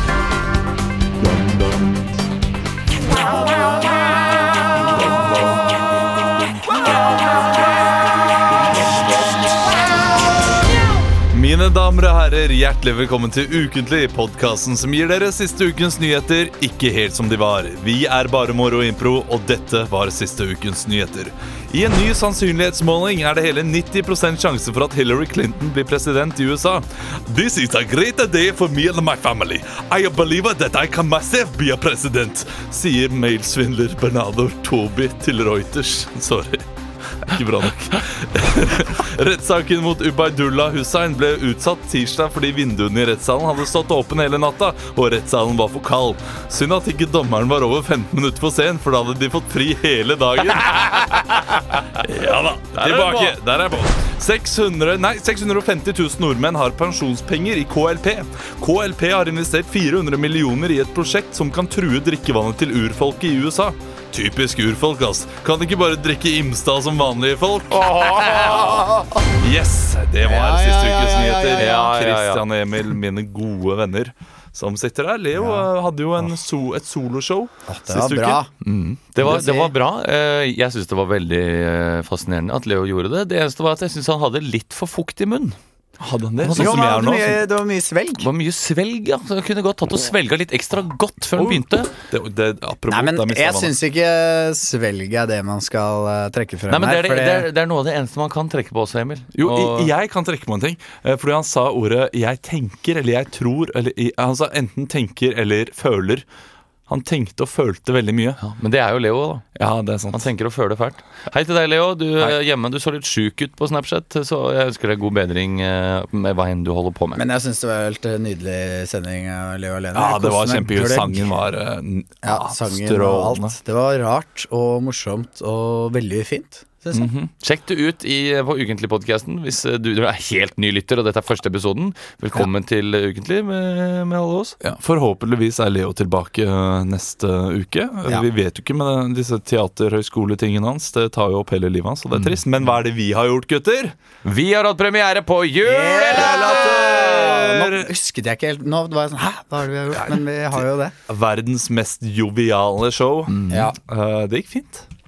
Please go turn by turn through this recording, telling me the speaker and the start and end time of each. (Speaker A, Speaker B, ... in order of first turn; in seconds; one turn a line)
Speaker A: 11.3-36.7
Speaker A: 37.2-68.7
Speaker B: 52.8-53.4
Speaker B: 67.7-68.8
Speaker C: 68.3-69.2
Speaker A: 69.4-78.5
Speaker C: 70.2-71.9
Speaker B: 71.6-72.4
Speaker C: 75.4-75.7
Speaker C: 77.7-78.5
Speaker B: 78.6-85.6
Speaker C: 79.2-79.7
Speaker A: 86.0-87.4
Speaker B: 86.4-86.8
Speaker C: 86.5-88.3
Speaker B: 88.2-91.9
Speaker A: 91.4-93.7
Speaker C: 92.9-97.5
Speaker B: 96.7-99.9
Speaker A: 99.4-106.2
Speaker A: 106.9-108.4
Speaker B: 108.4-109.5
Speaker A: 109.6-110.3
Speaker B: 110.1-117.2
Speaker C: 117.2-121.4
Speaker A: 119.9-123.5
Speaker C: 122.2-127.1
Speaker B: 126.9-134.6
Speaker A: 134.6-143.9
Speaker B: 144.2-146.4
Speaker C: 145.6-150.9
Speaker A: 146.1-147.9
Speaker A: 151.1-154.8
Speaker B: 153.3-153.7
Speaker C: 153.5-153.8